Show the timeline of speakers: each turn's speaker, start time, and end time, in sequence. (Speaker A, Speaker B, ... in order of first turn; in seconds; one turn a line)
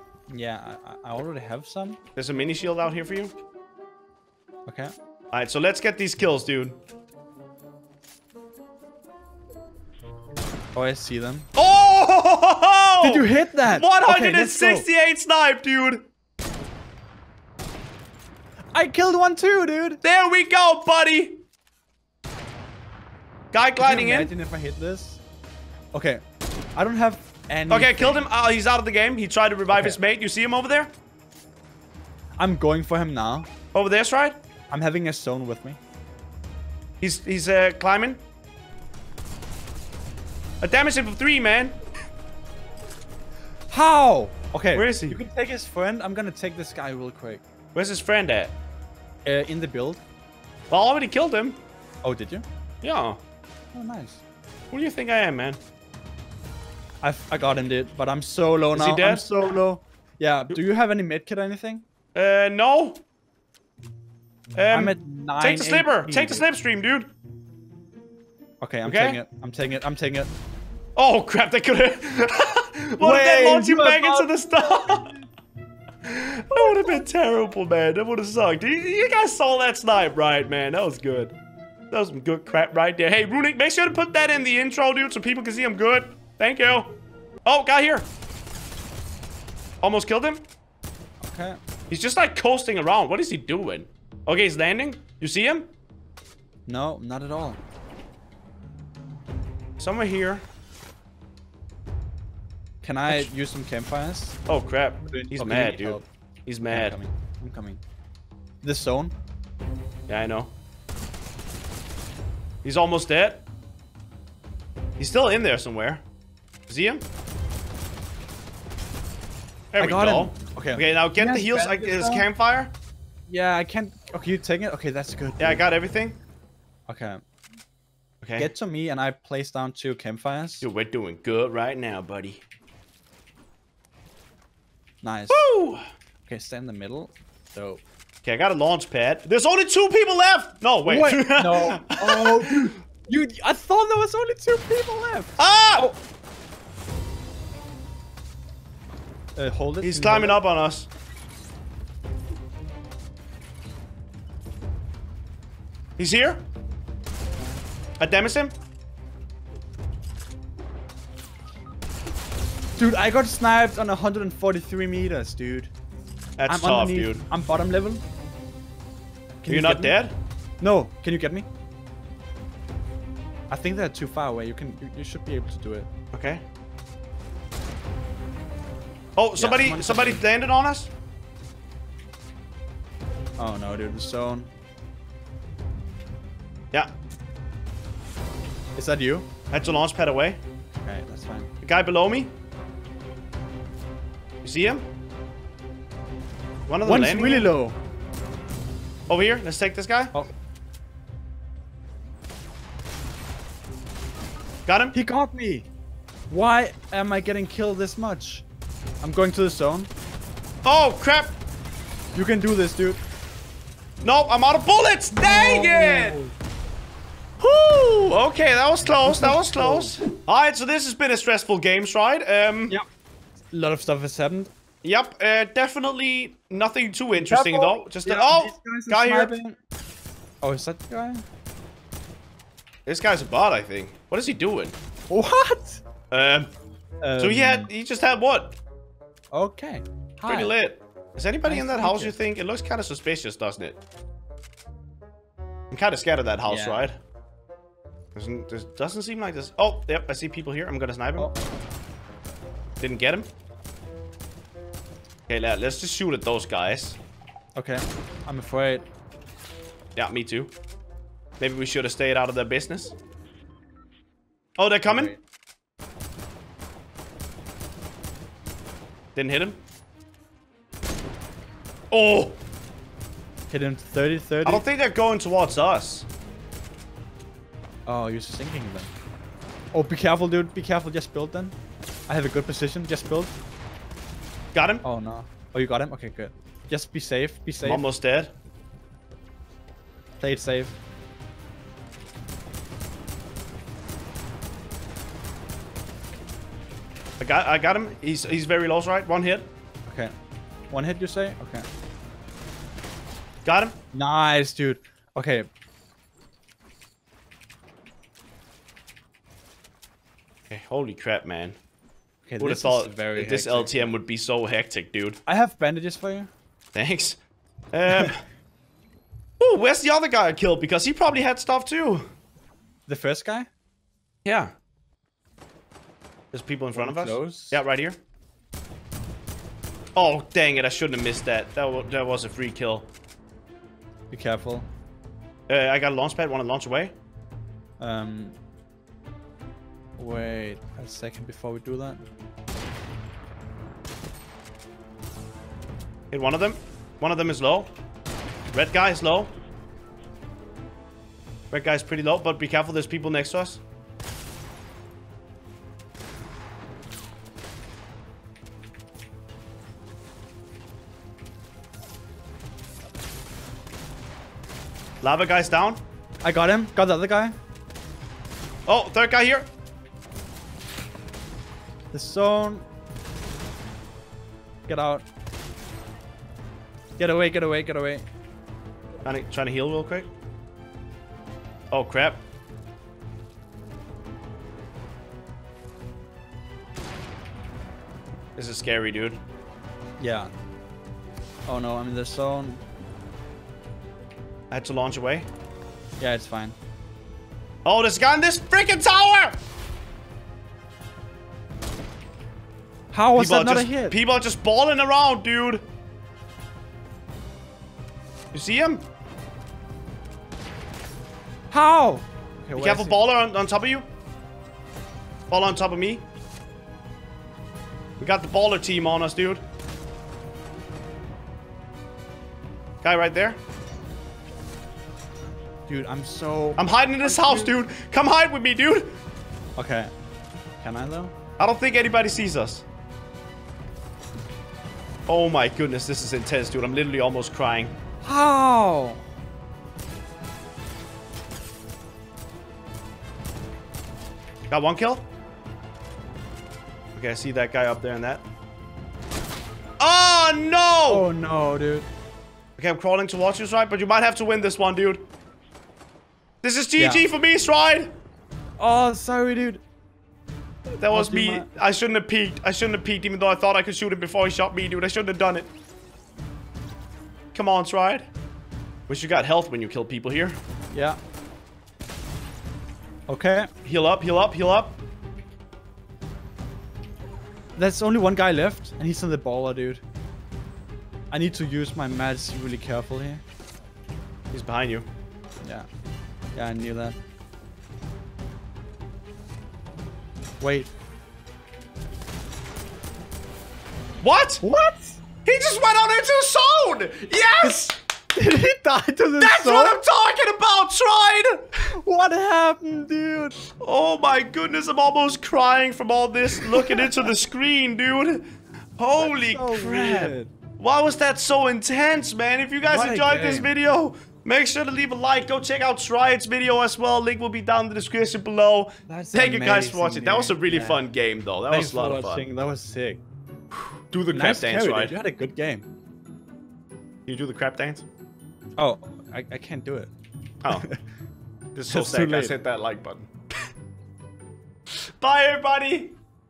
Speaker A: 0.3-2.0
Speaker B: 2.1-3.3
Speaker A: 4.7-4.9
Speaker B: 5.3-6.8
Speaker A: 10.8-11.5
Speaker B: 11.6-16.1
Speaker A: 13.0-14.9
Speaker A: 18.7-20.0
Speaker B: 20.0-21.4
Speaker B: 23.5-24.3
Speaker A: 23.8-25.2
Speaker A: 25.9-26.2
Speaker A: 26.8-28.2
Speaker B: 27.7-30.9
Speaker A: 29.7-30.0
Speaker A: 32.4-33.5
Speaker B: 33.7-34.4
Speaker A: 34.7-35.8
Speaker B: 37.0-38.2
Speaker B: 40.6-41.8
Speaker A: 43.7-47.4
Speaker B: 44.7-45.2
Speaker B: 47.8-48.6
Speaker A: 49.2-50.0
Speaker B: 50.7-51.6
Speaker A: 52.0-52.4
Speaker B: 52.8-53.2
Speaker A: 53.7-54.2
Speaker B: 54.7-55.6
Speaker A: 57.0-61.8
Speaker B: 58.7-59.3
Speaker B: 62.1-63.0
Speaker B: 64.5-67.1
Speaker A: 64.7-66.4
Speaker A: 68.6-70.3
Speaker B: 68.8-69.2
Speaker B: 71.0-75.1
Speaker A: 73.0-75.1
Speaker B: 76.1-81.3
Speaker A: 76.6-77.0
Speaker B: 81.9-88.1
Speaker B: 89.8-90.4
Speaker A: 91.2-91.6
Speaker B: 91.9-95.7
Speaker A: 96.7-97.6
Speaker B: 99.8-100.4
Speaker A: 102.8-104.4
Speaker B: 104.5-107.0
Speaker A: 105.1-106.1
Speaker A: 106.7-107.8
Speaker A: 108.6-109.1
Speaker B: 110.1-110.5
Speaker B: 112.6-113.4
Speaker B: 115.0-116.0
Speaker B: 116.7-117.0
Speaker B: 119.7-122.7
Speaker A: 119.8-122.2
Speaker A: 123.3-125.6
Speaker B: 125.4-126.2
Speaker A: 126.9-127.2
Speaker B: 128.2-128.5
Speaker A: 128.3-130.7
Speaker B: 130.6-132.4
Speaker A: 135.0-135.4
Speaker B: 135.3-135.8
Speaker A: 136.3-137.8
Speaker B: 138.2-142.7
Speaker A: 140.8-146.0
Speaker B: 145.4-145.9
Speaker A: 149.3-150.4
Speaker B: 149.8-150.9
Speaker B: 156.0-156.4
Speaker B: 158.0-158.5
Speaker A: 162.8-165.7
Speaker B: 166.4-167.2
Speaker A: 166.5-168.0
Speaker A: 169.4-170.0
Speaker B: 169.5-170.1
Speaker A: 170.6-171.4
Speaker A: 173.5-175.9
Speaker B: 176.1-176.4
Speaker B: 179.2-180.9
Speaker A: 179.4-180.2
Speaker A: 183.4-184.5
Speaker A: 188.8-189.3
Speaker B: 189.5-190.4
Speaker A: 190.8-191.5
Speaker B: 191.6-192.3
Speaker B: 194.4-194.8
Speaker B: 196.7-197.5
Speaker A: 196.8-197.8
Speaker B: 199.1-200.2
Speaker B: 204.7-204.9
Speaker A: 204.9-205.7
Speaker A: 206.3-208.4
Speaker A: 209.0-209.9
Speaker B: 210.7-211.3
Speaker A: 212.2-213.0
Speaker B: 214.0-216.2
Speaker A: 215.2-216.3
Speaker B: 217.4-222.8
Speaker A: 218.8-220.0
Speaker A: 223.5-224.5
Speaker B: 224.8-229.3
Speaker A: 227.2-229.6
Speaker A: 230.4-231.2
Speaker B: 232.8-234.8
Speaker A: 235.1-235.8
Speaker B: 236.1-236.5
Speaker A: 237.0-237.7
Speaker B: 237.2-238.6
Speaker A: 239.3-240.6
Speaker B: 240.3-243.8
Speaker A: 241.4-242.1
Speaker B: 245.7-247.0
Speaker A: 246.5-246.9
Speaker B: 248.2-251.3
Speaker B: 252.8-253.3
Speaker B: 255.3-257.0
Speaker A: 257.6-258.9
Speaker B: 259.9-260.5
Speaker B: 261.4-263.0
Speaker B: 264.6-265.1
Speaker A: 264.9-265.2
Speaker B: 269.1-269.6
Speaker B: 271.9-272.4
Speaker A: 273.5-274.6
Speaker B: 274.4-276.1
Speaker A: 277.9-278.9
Speaker A: 279.7-281.6
Speaker A: 282.1-283.3
Speaker B: 284.6-284.8
Speaker A: 284.8-287.8
Speaker B: 287.6-288.3
Speaker A: 290.2-290.8
Speaker B: 297.2-299.5
Speaker A: 299.9-300.1
Speaker A: 300.7-301.7
Speaker B: 303.4-303.8
Speaker A: 303.9-305.5
Speaker B: 310.5-311.6
Speaker A: 312.3-313.9
Speaker B: 312.4-315.2
Speaker A: 315.3-316.3
Speaker B: 316.7-317.2
Speaker B: 317.7-318.2
Speaker B: 319.4-322.1
Speaker A: 322.9-323.5
Speaker B: 324.2-324.5
Speaker B: 326.3-328.0
Speaker A: 326.7-327.6
Speaker B: 329.9-332.9
Speaker A: 334.1-334.7
Speaker B: 335.5-336.9
Speaker A: 337.8-338.4
Speaker A: 340.0-342.0
Speaker B: 346.1-347.7
Speaker B: 348.5-349.3
Speaker B: 351.5-353.6
Speaker B: 365.0-365.8
Speaker A: 366.2-367.4
Speaker B: 368.7-369.5
Speaker A: 371.9-372.7
Speaker A: 374.7-375.1
Speaker A: 377.0-378.1
Speaker B: 379.0-380.1
Speaker B: 381.7-382.2
Speaker B: 388.4-389.2
Speaker A: 390.0-390.3
Speaker A: 391.5-392.6
Speaker B: 394.5-395.3
Speaker A: 396.0-396.6
Speaker B: 397.6-399.4
Speaker A: 402.9-404.0
Speaker B: 403.1-405.6
Speaker B: 408.3-408.9
Speaker A: 411.5-413.0
Speaker B: 412.6-413.9
Speaker B: 415.3-416.0
Speaker B: 418.0-419.4
Speaker B: 422.8-423.4
Speaker A: 425.7-427.6
Speaker B: 426.6-429.0
Speaker A: 429.6-429.9
Speaker A: 430.6-431.1
Speaker B: 431.4-432.6
Speaker B: 435.1-437.7
Speaker A: 438.0-439.0
Speaker B: 444.5-445.1
Speaker B: 446.9-448.2
Speaker B: 449.8-451.1
Speaker A: 450.9-451.9
Speaker B: 452.6-455.1
Speaker B: 456.4-457.9
Speaker A: 456.8-457.1
Speaker A: 458.6-459.6
Speaker B: 460.8-465.5
Speaker A: 460.9-461.5
Speaker B: 467.3-468.1
Speaker B: 468.9-470.4
Speaker A: 470.7-471.0
Speaker A: 473.1-473.5
Speaker B: 473.6-474.8
Speaker A: 477.6-479.8
Speaker A: 481.1-483.2
Speaker B: 484.3-484.9
Speaker A: 486.3-487.0
Speaker A: 490.4-490.7
Speaker B: 494.0-494.4
Speaker A: 494.4-495.0
Speaker B: 495.2-497.7
Speaker A: 497.4-499.8
Speaker B: 499.2-501.4
Speaker A: 501.8-503.4
Speaker B: 503.6-508.2
Speaker A: 506.6-506.8
Speaker B: 508.8-522.3
Speaker A: 509.0-510.3
Speaker A: 512.7-513.5
Speaker A: 518.9-520.8
Speaker A: 521.5-523.0
Speaker B: 523.9-524.9
Speaker A: 524.1-525.6
Speaker B: 527.1-527.9
Speaker A: 528.6-529.9
Speaker A: 530.5-530.8
Speaker B: 531.5-533.1
Speaker A: 531.7-532.4
Speaker B: 535.0-536.0